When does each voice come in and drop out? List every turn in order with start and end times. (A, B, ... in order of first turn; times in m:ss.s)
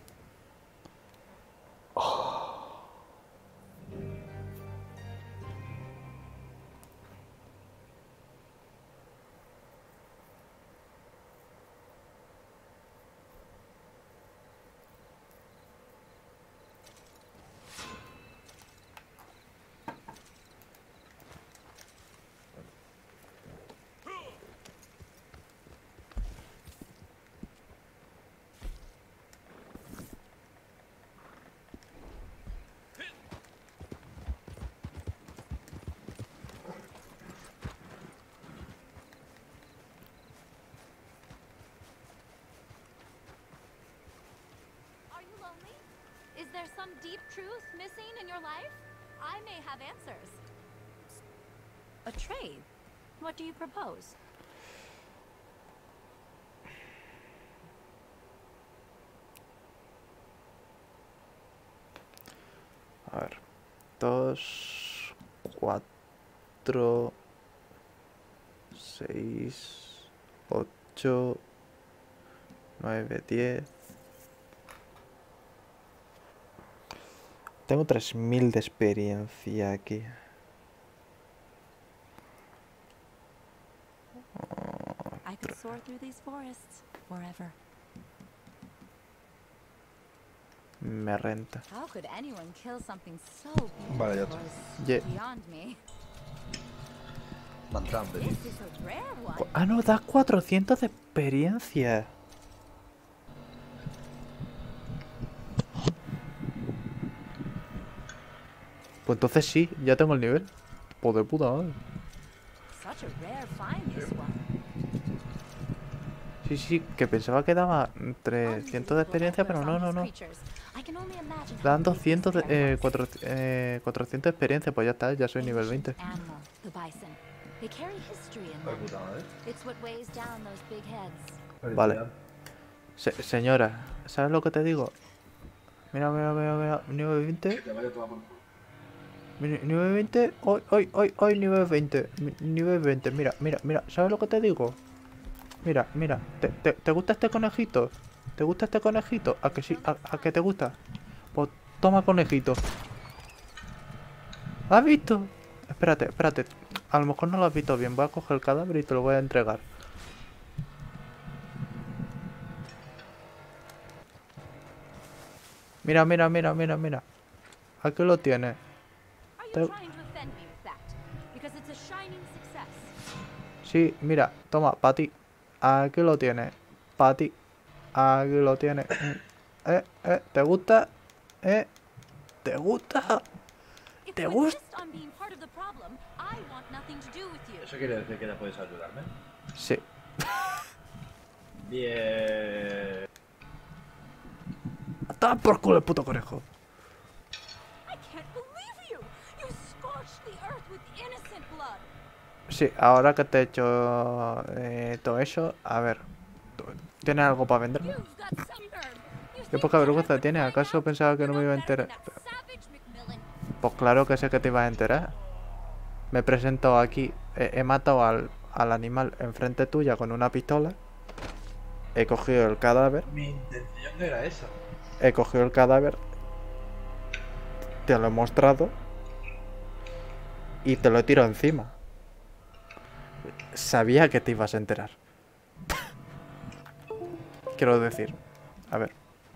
0:02.0-0:02.3 A
0:45.1-0:50.4 B
0:52.0-0:52.7 B
0:53.2-0:54.2 B
1:03.0-1:03.4 A
1:04.0-1:05.8 A
1:06.6-1:07.2 A
1:08.7-1:11.4 A
1:12.8-1:13.7 A
1:17.7-1:20.2 A
1:24.5-1:25.0 A
1:25.2-1:27.6 B
1:30.8-1:31.6 A
1:31.7-1:35.8 B
1:33.9-1:34.4 C
1:34.8-1:35.0 A
1:37.7-1:38.4 C
1:38.1-1:39.5 B
1:39.4-1:42.1 A
1:49.0-1:51.8 A
1:52.7-1:54.4 B
1:56.4-2:00.1 A
1:58.4-2:03.0 B
2:01.6-2:06.0 A
2:05.4-2:08.9 B
2:08.6-2:09.3 C
2:09.4-2:11.4 B
2:11.6-2:12.1 C
2:11.7-2:12.0 A
2:13.0-2:14.9 A
2:15.9-2:17.6 A
2:17.5-2:18.4 C
2:19.4-2:24.8 A
2:25.6-2:30.8 A
2:29.4-2:30.6 B
2:31.3-2:32.6 A
2:34.7-2:39.6 A
2:45.8-2:47.0 A
2:47.8-2:48.6 A
2:49.4-2:52.9 B
2:53.6-2:57.4 A
2:57.9-3:00.9 A
3:01.4-3:01.7 A
3:02.4-3:03.2 A
3:04.0-3:07.7 B
3:04.1-3:04.6 A
3:07.6-3:09.1 C
3:09.5-3:10.3 A
3:11.7-3:13.0 C
3:15.1-3:16.4 A
3:17.8-3:21.9 B
3:22.5-3:28.0 A
3:27.8-3:33.3 B
3:29.5-3:32.0 A
3:33.6-3:35.1 A
3:36.1-3:40.8 A
3:41.9-3:43.1 A
3:43.0-3:44.5 C
3:45.0-3:46.0 A
3:47.8-3:48.7 A
3:50.6-3:51.8 A
3:53.5-3:54.9 A
3:57.5-3:58.2 A